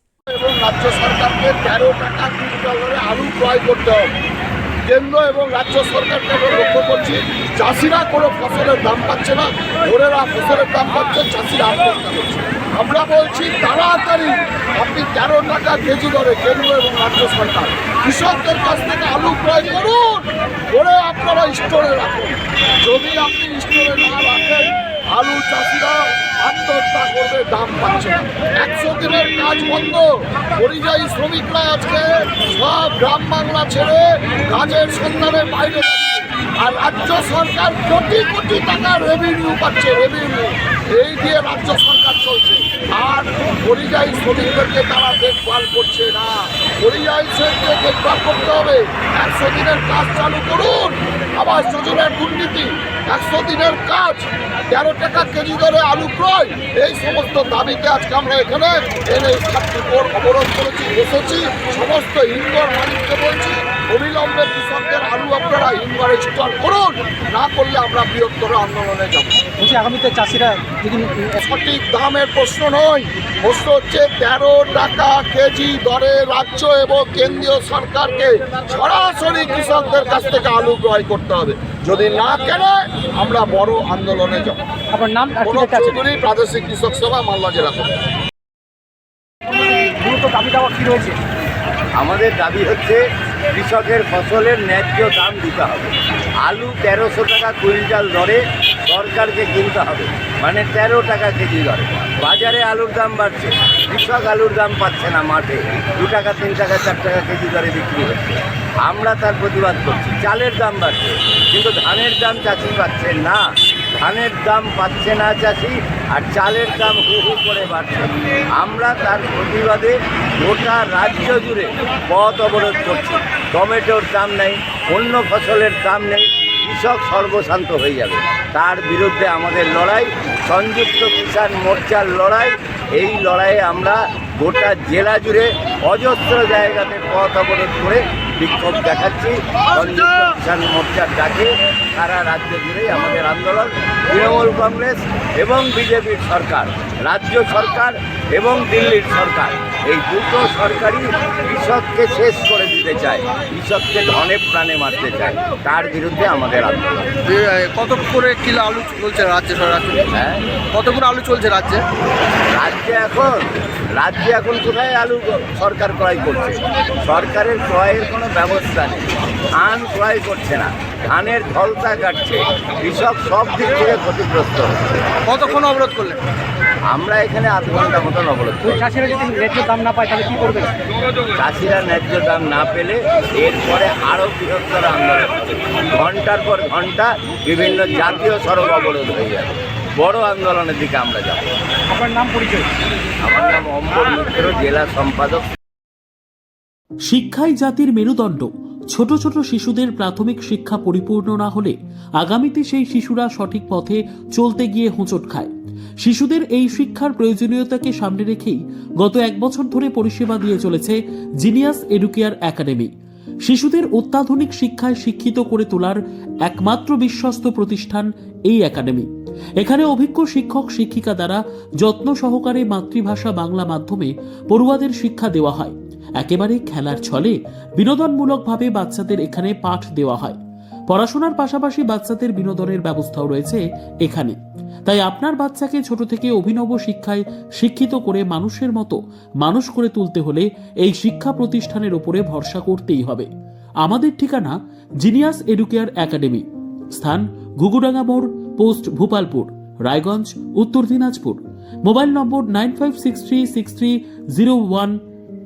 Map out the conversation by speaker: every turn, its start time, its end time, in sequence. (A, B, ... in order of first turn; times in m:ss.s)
0:00.3-0:04.1 A
0:04.9-1:09.4 A
1:09.6-1:11.4 B
1:11.4-1:24.6 A
1:24.9-1:26.0 B
1:25.4-1:27.9 A
1:29.5-1:31.2 B
1:32.0-1:33.0 C
1:33.5-1:53.4 C
1:54.0-2:37.2 C
2:37.2-2:40.1 D
2:40.1-2:40.4 C
2:40.7-2:41.8 D
2:42.5-2:49.1 C
2:49.6-2:55.9 C
2:55.4-2:56.2 D
2:56.9-2:58.9 C
2:58.6-3:00.8 B
3:01.4-3:11.5 C
3:11.9-3:12.7 B
3:13.2-3:15.4 C
3:17.1-3:32.9 E
3:33.4-3:39.1 E
3:39.6-4:03.3 E
4:03.8-4:15.0 E